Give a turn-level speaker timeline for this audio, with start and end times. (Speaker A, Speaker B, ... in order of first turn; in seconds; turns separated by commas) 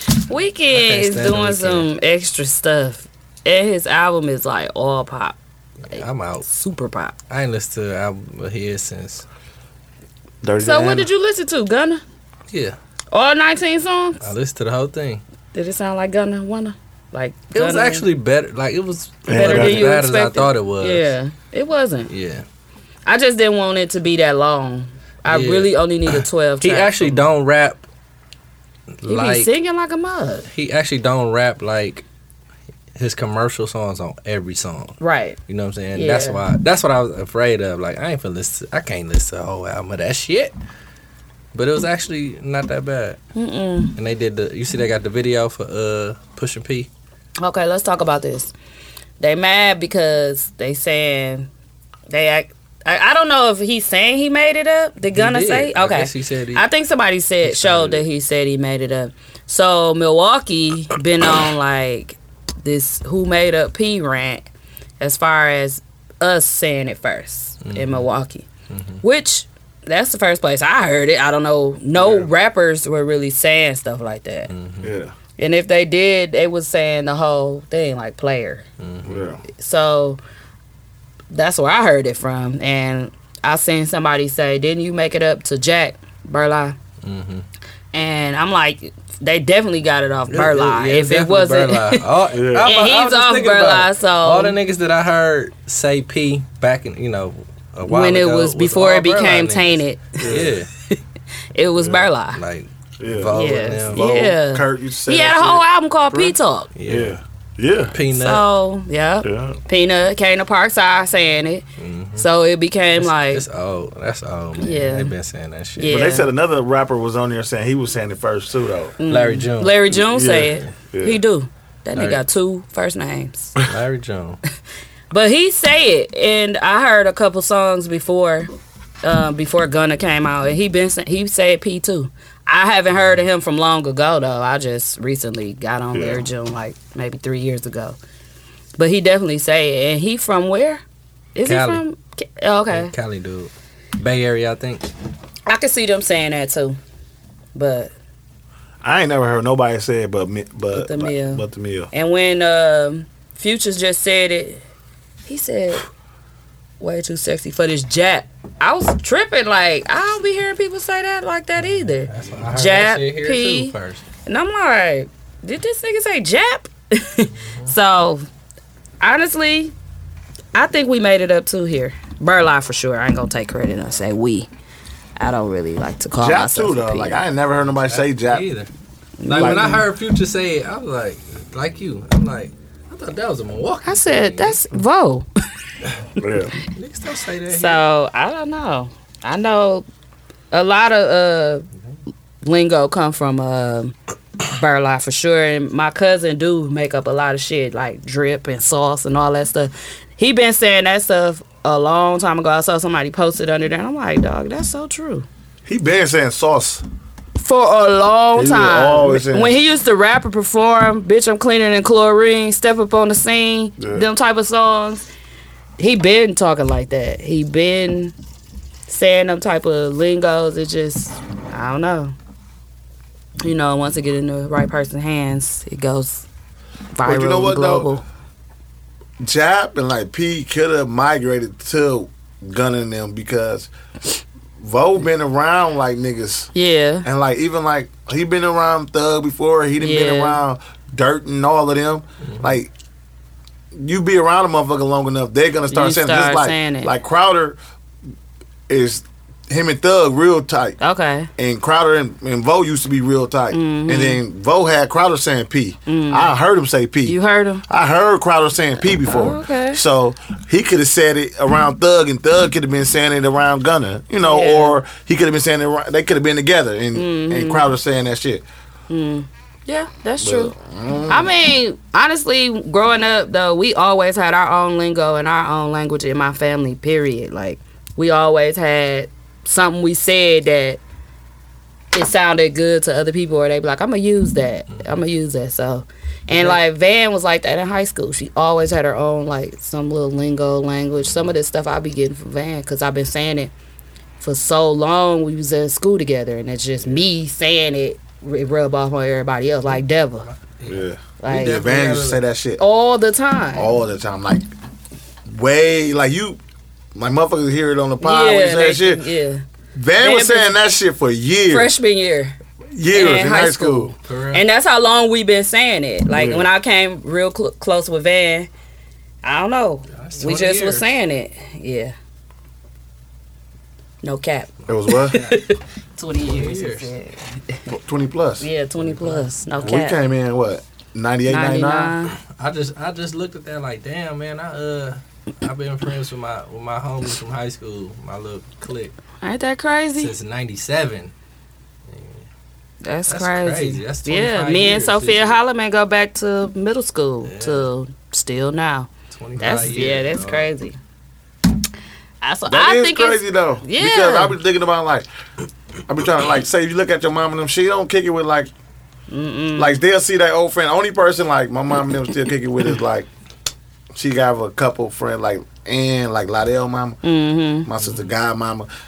Speaker A: 0.3-5.4, Speaker B: 0.7-1.9, Speaker B: 5.8-6.5, Speaker A: 5.9-7.2, Speaker B: 7.3-9.2, Speaker C: 10.4-11.1, Speaker A: 10.6-12.0, Speaker B: 12.5-12.8, Speaker A: 13.1-14.3, Speaker B: 14.2-15.2, Speaker A: 15.5-18.1, Speaker B: 17.5-21.1, Speaker C: 19.3-19.9, Speaker A: 19.3-22.1, Speaker B: 22.1-22.4, Speaker A: 23.1-27.2, Speaker B: 25.3-27.8, Speaker B: 29.0-29.5, Speaker A: 29.1-30.5, Speaker B: 30.5-32.0, Speaker B: 33.0-40.5, Speaker A: 35.0-35.4, Speaker A: 35.9-36.4, Speaker B: 41.5-43.2, Speaker A: 43.4-44.0, Speaker B: 44.0-46.9, Speaker A: 47.4-48.5, Speaker A: 49.2-51.5, Speaker A: 52.1-64.5, Speaker B: 55.1-56.6, Speaker B: 57.5-58.0, Speaker A: 65.0-68.5, Speaker B: 67.6-68.1, Speaker B: 68.7-69.0, Speaker A: 69.0-74.5, Speaker C: 72.0-72.3, Speaker B: 74.5-74.9, Speaker C: 74.8-75.1, Speaker A: 75.4-78.7, Speaker B: 78.8-79.2, Speaker C: 79.0-79.4, Speaker A: 79.5-80.2, Speaker A: 81.3-86.8, Speaker B: 87.0-87.5, Speaker A: 87.9-92.0, Speaker B: 90.3-100.7, Speaker C: 92.3-92.7, Speaker A: 92.6-94.6, Speaker A: 97.9-100.3, Speaker C: 100.2-100.5, Speaker A: 101.5-102.4, Speaker B: 101.8-104.0, Speaker C: 103.0-103.3, Speaker A: 103.3-106.7, Speaker C: 103.9-106.4, Speaker B: 106.8-107.2, Speaker C: 106.9-107.9, Speaker B: 107.9-108.5, Speaker A: 108.1-111.7, Speaker C: 109.2-109.6, Speaker B: 111.8-112.3, Speaker A: 112.2-113.4, Speaker B: 113.0-116.1, Speaker A: 114.6-115.1, Speaker A: 115.8-116.3, Speaker C: 115.9-119.0, Speaker A: 119.0-123.5, Speaker B: 119.1-120.6, Speaker C: 119.9-121.2, Speaker B: 123.6-124.4, Speaker A: 125.1-128.5, Speaker A: 129.0-138.0, Speaker C: 135.9-136.2, Speaker A: 138.8-140.8, Speaker A: 141.3-142.9, Speaker B: 141.4-141.8, Speaker B: 142.7-144.9, Speaker A: 145.5-146.8, Speaker A: 147.6-147.9, Speaker C: 148.8-151.9, Speaker A: 150.7-154.6, Speaker A: 155.3-155.8, Speaker A: 156.8-163.7, Speaker B: 161.6-164.0, Speaker A: 164.2-168.3, Speaker A: 169.0-169.7, Speaker A: 170.5-174.5, Speaker A: 175.2-177.2, Speaker C: 176.2-178.5, Speaker B: 177.7-178.7, Speaker A: 179.2-179.8, Speaker B: 179.3-184.6, Speaker C: 179.3-179.7, Speaker A: 183.8-185.3, Speaker C: 186.2-186.5, Speaker B: 186.7-187.8, Speaker A: 187.5-189.9, Speaker A: 190.5-191.7, Speaker A: 192.4-205.3, Speaker C: 205.7-206.8, Speaker A: 207.4-215.1, Speaker C: 208.4-209.6, Speaker C: 213.8-214.1, Speaker A: 215.8-218.2, Speaker A: 218.9-222.1, Speaker A: 223.4-226.3, Speaker A: 226.9-228.1, Speaker C: 227.0-227.9, Speaker C: 229.2-233.7, Speaker C: 234.6-236.5, Speaker A: 236.5-237.1, Speaker C: 237.0-242.7, Speaker A: 239.8-240.4, Speaker B: 242.3-242.5, Speaker C: 243.8-247.6, Speaker A: 245.7-246.9, Speaker C: 248.7-250.8, Speaker A: 250.8-251.3, Speaker C: 251.4-257.2, Speaker A: 253.5-254.2, Speaker A: 255.9-256.3, Speaker A: 257.1-257.6, Speaker C: 257.7-268.4, Speaker A: 259.0-259.8, Speaker A: 264.2-264.8, Speaker A: 266.9-267.7, Speaker A: 268.9-270.6, Speaker C: 270.2-271.3, Speaker A: 271.1-280.8, Speaker A: 281.9-293.5, Speaker A: 294.2-300.3, Speaker B: 300.5-302.2, Speaker C: 300.7-302.6, Speaker A: 301.2-301.7, Speaker A: 302.6-303.7, Speaker C: 303.6-304.5, Speaker C: 305.3-306.4, Speaker C: 306.9-309.0, Speaker A: 308.0-309.4, Speaker C: 309.8-311.7, Speaker A: 310.0-310.6, Speaker A: 311.5-312.4, Speaker C: 312.8-313.9, Speaker A: 312.9-318.5, Speaker B: 314.0-314.4, Speaker C: 316.1-316.5, Speaker A: 319.2-321.9, Speaker B: 319.9-320.9, Speaker A: 324.0-327.3, Speaker C: 324.7-325.2, Speaker B: 325.1-325.5, Speaker B: 326.2-326.9, Speaker C: 327.7-328.5, Speaker A: 328.4-330.0, Speaker B: 328.8-329.7, Speaker C: 329.6-331.9, Speaker A: 331.3-332.1, Speaker B: 332.4-339.0, Speaker A: 339.2-340.1, Speaker B: 340.0-341.1, Speaker B: 341.9-342.2, Speaker A: 342.8-350.8, Speaker B: 343.1-345.4, Speaker B: 347.2-347.7, Speaker B: 349.1-350.5, Speaker A: 352.2-354.4, Speaker C: 352.5-355.1, Speaker C: 355.9-358.5, Speaker A: 359.1-359.8, Speaker C: 359.6-363.1, Speaker C: 363.9-367.0, Speaker A: 367.0-367.7, Speaker C: 367.6-368.7